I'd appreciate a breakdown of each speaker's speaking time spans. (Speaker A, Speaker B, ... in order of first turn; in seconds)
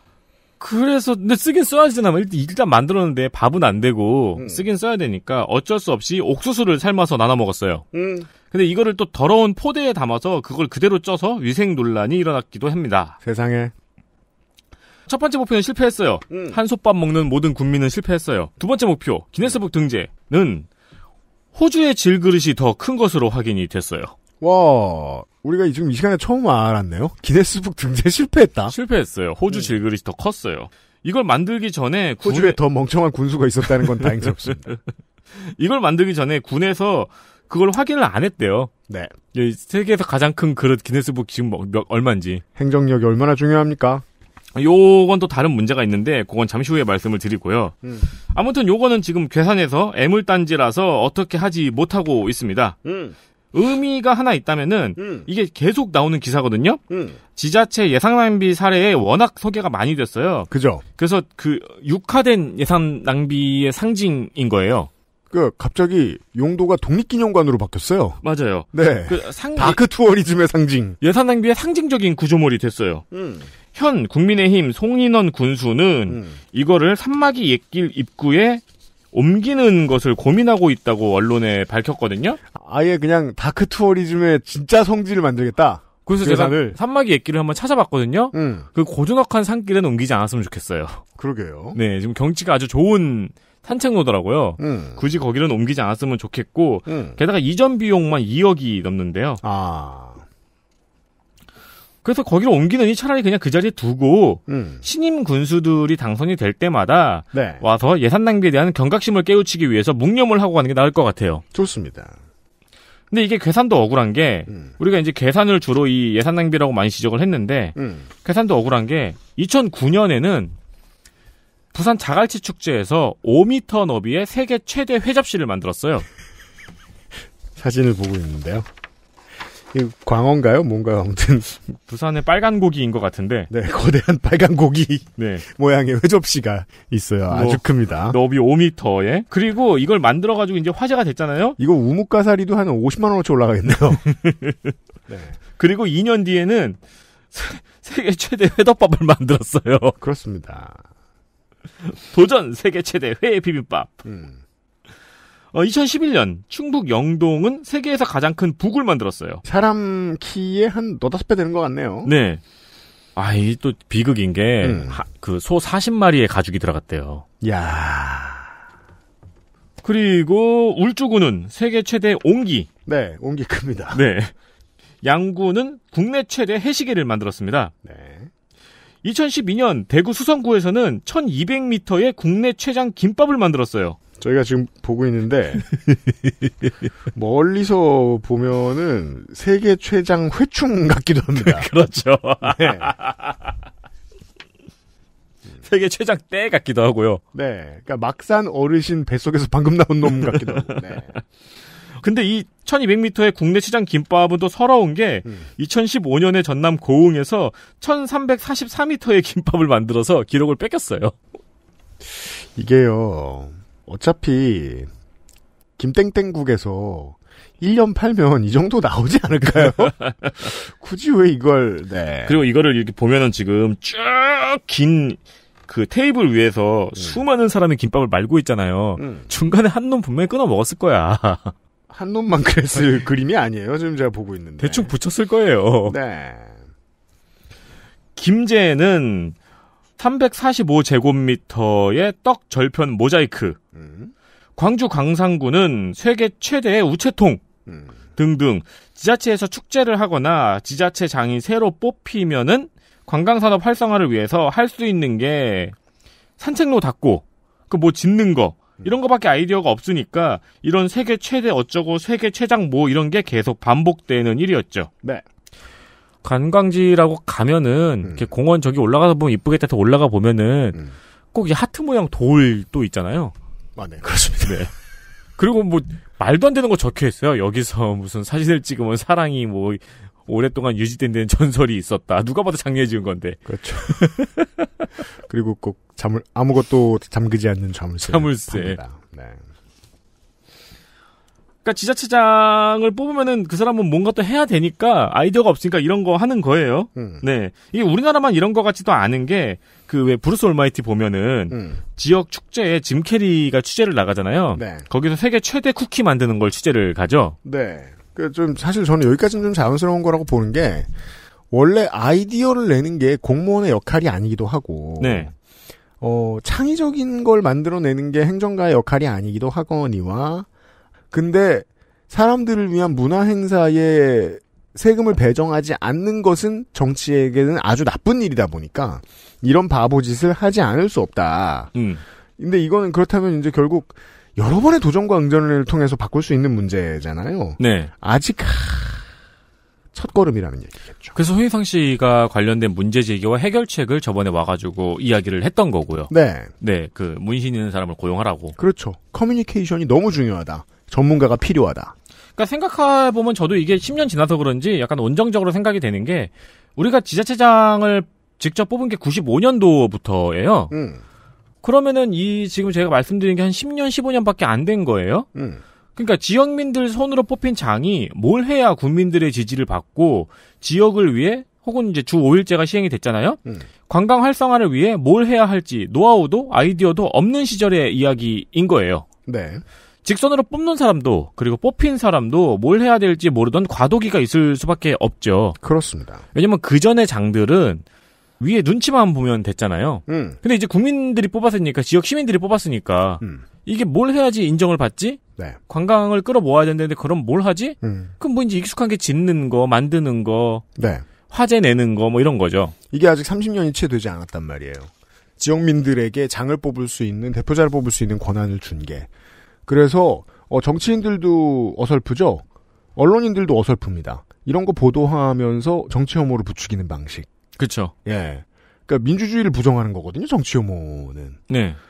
Speaker A: 0.6-7.8, 8.5-13.2, 15.1-20.7, 21.5-24.1, 28.7-32.6, 34.0-34.8, 35.3-38.7, 39.3-42.4, 44.5-47.7, 48.3-52.8, 53.5-56.8, 57.4-64.9, 68.2-69.8, 71.0-73.0, 73.7-78.6, 79.1-82.4, 86.0-91.0, 91.7-99.4, 102.0-111.4, 113.1-120.5, 121.7-126.0, 131.7-133.5, 135.2-135.4, 137.3-141.6, 144.2-144.6, 145.6-146.8, 147.3-150.0, 151.8-153.9, 155.5-159.4, 162.0-162.4, 163.2-167.2, 169.8-172.7, 173.9-174.3, 175.0-177.7, 179.0-184.0, 191.3-193.3, 195.6-197.2, 200.5-200.8, 202.0-211.2, 219.5-220.3, 222.2-231.5, 234.6-236.0, 238.2-239.3, 240.0-243.6, 244.6-247.4, 248.2-255.7, 256.4-264.9, 266.2-270.8, 271.3-273.3, 274.4-274.7, 275.4-284.5, 288.1-288.8, 291.6-307.4, 315.0-315.3, 331.7-332.0, 337.6-337.9, 341.1-348.6, 352.4-360.7, 361.6-365.3, 365.9-379.0, 380.0-385.6, 386.3-387.8, 388.4-400.6, 401.3-402.7, 417.6-417.9, 421.5-421.8
Speaker B: 4.3-4.6, 7.9-8.3, 13.2-13.7, 16.3-16.6, 24.4-28.7, 29.5-29.7, 32.2-34.7, 38.9-39.1, 42.5-44.0, 47.8-48.1, 52.8-53.1, 55.0-55.3, 56.9-57.2, 60.5-60.8, 65.3-68.2, 68.7-71.0, 73.1-73.5, 76.1-76.4, 82.5-86.8, 88.3-88.7, 91.2-91.8, 94.6-95.0, 96.9-97.2, 99.4-100.2, 104.5-104.8, 107.3-107.6, 111.5-112.2, 117.8-118.0, 127.5-128.7, 129.7-131.5, 133.5-138.2, 141.6-144.0, 145.1-145.4, 150.0-150.8, 154.0-154.4, 159.4-162.1, 164.6-165.0, 167.4-168.5, 172.8-174.0, 177.8-178.3, 184.2-185.7, 187.1-191.7, 192.4-192.9, 197.3-201.1, 212.1-214.9, 215.8-222.3, 226.9-227.2, 229.0-229.3, 231.9-234.9, 235.9-236.6, 243.7-244.1, 247.7-247.9, 268.0-268.3, 273.8-274.7, 283.4-284.1, 285.2-289.4, 296.9-297.2, 301.5-301.8, 304.5-304.8, 307.4-310.9, 311.5-315.3, 316.0-320.5, 321.1-331.7, 332.4-339.1, 339.9-341.1, 346.1-346.5, 348.6-351.9, 360.7-361.0, 365.3-365.6, 379.3-379.6, 385.6-386.2, 390.1-390.4, 397.8-398.1, 400.8-401.0, 402.9-409.1, 409.7-412.4, 412.9-417.3, 418.0-421.4